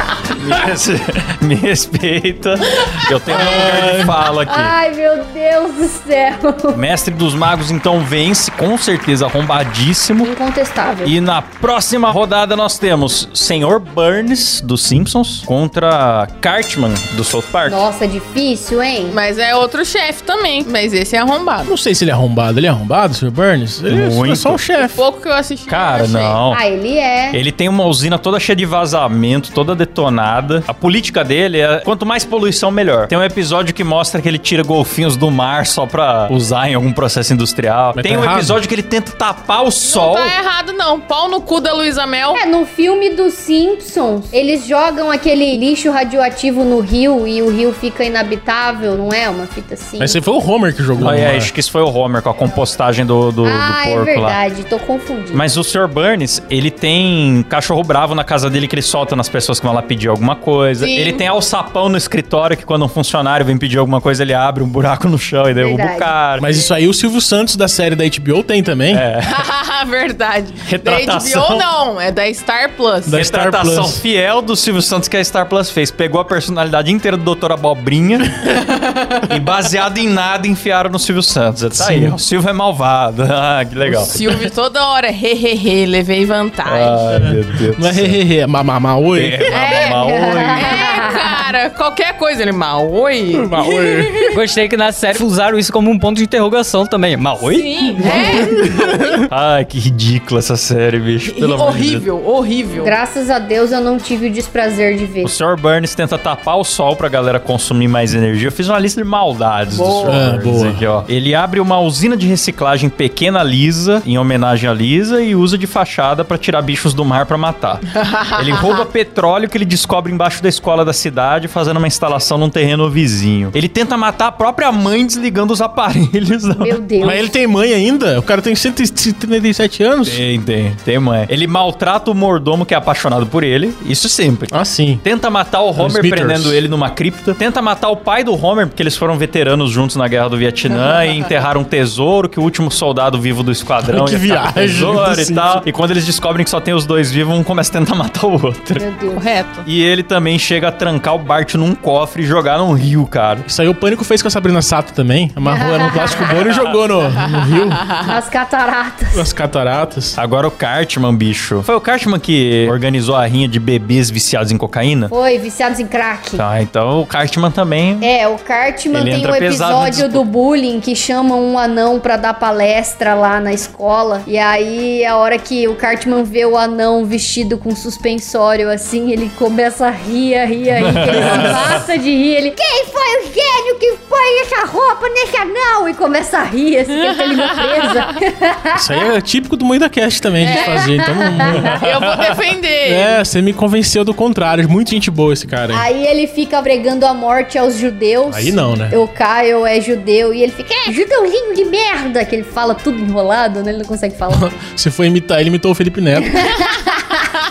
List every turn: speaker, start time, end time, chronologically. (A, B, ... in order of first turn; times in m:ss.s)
0:00.3-0:04.7 A
0:03.3-0:04.1 B
0:04.5-0:06.8 C
0:06.7-0:10.3 A
0:10.2-0:11.1 C
0:11.0-0:17.8 A
0:17.6-0:19.2 C
0:19.1-0:21.7 D
0:21.6-0:25.0 B
0:23.9-0:24.6 A
0:24.8-0:26.4 D
0:25.7-0:26.6 A
0:26.5-0:27.4 C
0:27.3-0:40.3 A
0:38.0-0:38.6 B
0:39.8-0:42.4 D
0:42.3-0:50.2 C
0:50.0-0:51.5 B
0:51.0-0:54.4 A
0:53.4-0:55.4 C
0:55.3-1:06.5 A
1:00.8-1:01.2 D
1:05.6-1:06.1 C
1:06.4-1:09.0 B
1:08.9-1:09.4 A
1:09.2-1:13.2 D
1:10.6-1:11.6 A
1:13.0-1:14.0 B
1:13.1-1:18.4 A
1:18.5-1:19.3 D
1:19.2-1:24.1 A
1:21.7-1:22.2 B
1:23.9-1:27.3 D
1:26.6-1:28.2 A
1:27.1-1:29.4 B
1:29.1-1:31.0 A
1:29.5-1:34.4 D
1:29.8-1:31.3 C
1:33.3-1:34.4 B
1:34.3-1:38.6 E
1:37.4-1:38.7 D
1:38.1-1:39.2 B
1:39.3-1:42.0 A
1:41.2-1:42.9 D
1:42.8-1:45.3 C
1:45.2-2:06.8 A
1:49.7-1:50.3 D
1:50.0-1:50.8 B
1:57.9-1:58.9 D
2:06.6-2:07.3 C
2:07.0-2:10.2 B
2:10.0-2:28.8 A
2:14.5-2:15.0 B
2:15.7-2:16.6 B
2:20.7-2:21.4 D
2:23.8-2:25.6 B
2:28.8-2:29.3 C
2:29.1-2:29.7 D
2:29.6-2:33.5 A
2:33.5-2:37.8 B
2:35.4-2:36.3 C
2:36.2-2:36.8 A
2:38.0-2:39.3 C
2:39.1-2:40.2 B
2:40.2-2:45.1 A
2:45.1-2:46.4 C
2:46.4-2:48.1 A
2:48.0-3:08.8 C
2:48.9-2:50.2 A
3:00.8-3:01.8 A
3:01.2-3:01.6 B
3:07.0-3:08.0 D
3:08.7-3:11.8 B
3:10.4-3:10.9 D
3:10.5-3:11.7 C
3:11.6-3:11.9 A
3:11.8-3:13.2 D
3:12.8-3:15.8 B
3:15.7-3:24.5 C
3:18.3-3:19.0 B
3:24.3-3:26.5 B
3:26.3-3:27.2 C